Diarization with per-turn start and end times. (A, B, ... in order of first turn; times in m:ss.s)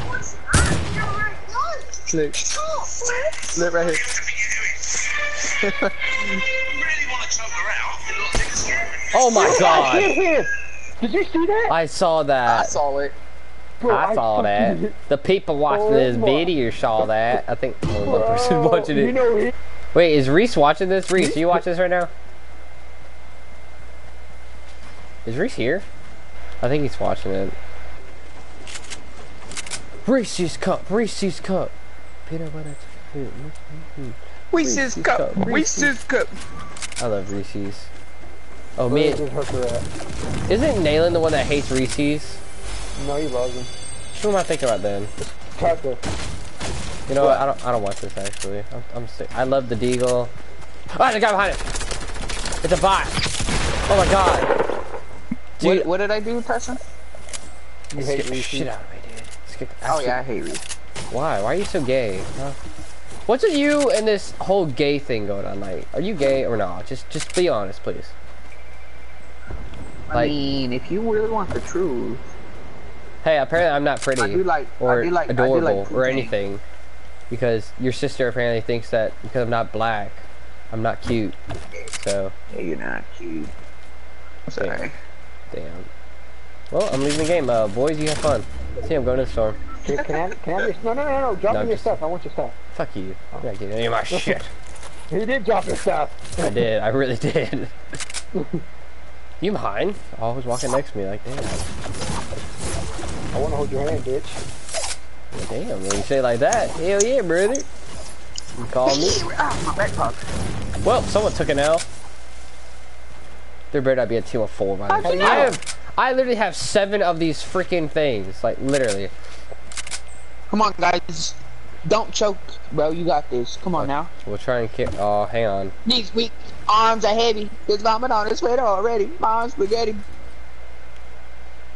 0:02.1-0:09.1 A
0:09.1-0:10.1 B
0:09.3-0:11.8 C
0:11.7-0:12.8 B
0:12.5-0:13.2 A
0:13.8-0:15.0 C
0:13.9-0:19.2 B
0:15.7-0:16.5 C
0:18.0-0:19.5 C
0:19.9-0:22.1 B
0:21.2-0:21.6 C
0:25.2-0:25.9 B
0:26.6-0:27.6 B
0:30.0-0:31.7 B
0:32.3-0:35.5 B
0:34.5-0:36.3 A
0:35.4-0:36.0 C
0:37.0-0:37.9 B
0:38.8-0:39.2 B
0:38.9-0:39.8 C
0:40.5-0:42.4 B
0:43.0-0:43.7 C
0:44.2-0:45.1 B
0:45.2-0:46.0 C
0:47.1-0:50.3 B
0:47.2-0:47.4 A
0:50.9-0:51.6 B
0:52.6-0:53.2 B
0:53.9-0:54.5 B
0:55.6-0:55.9 B
0:55.6-0:56.8 A
0:57.9-0:58.7 C
0:58.0-1:00.2 B
0:59.9-1:00.6 A
1:01.1-1:02.6 B
1:03.3-1:08.1 B
1:10.1-1:12.2 A
1:13.2-1:16.6 B
1:14.2-1:16.3 A
1:17.3-1:21.4 B
1:21.9-1:22.3 B
1:22.5-1:23.5 A
1:24.5-1:24.9 A
1:24.6-1:24.8 B
1:25.5-1:25.9 B
1:26.7-1:29.6 B
1:29.8-1:32.6 C
1:31.5-1:32.0 B
1:32.7-1:34.5 B
1:34.1-1:34.4 C
1:35.1-1:36.6 C
1:36.4-1:37.8 B
1:38.4-1:38.6 C
1:39.4-1:41.7 B
1:43.3-1:44.4 C
1:45.3-1:47.7 B
1:48.6-1:49.2 B
1:48.9-1:50.3 A
1:50.8-1:51.9 B
1:53.7-1:59.1 B
1:54.9-1:55.6 A
1:55.0-1:55.6 C
2:00.5-2:04.1 A
2:03.8-2:05.7 B
2:05.8-2:10.0 A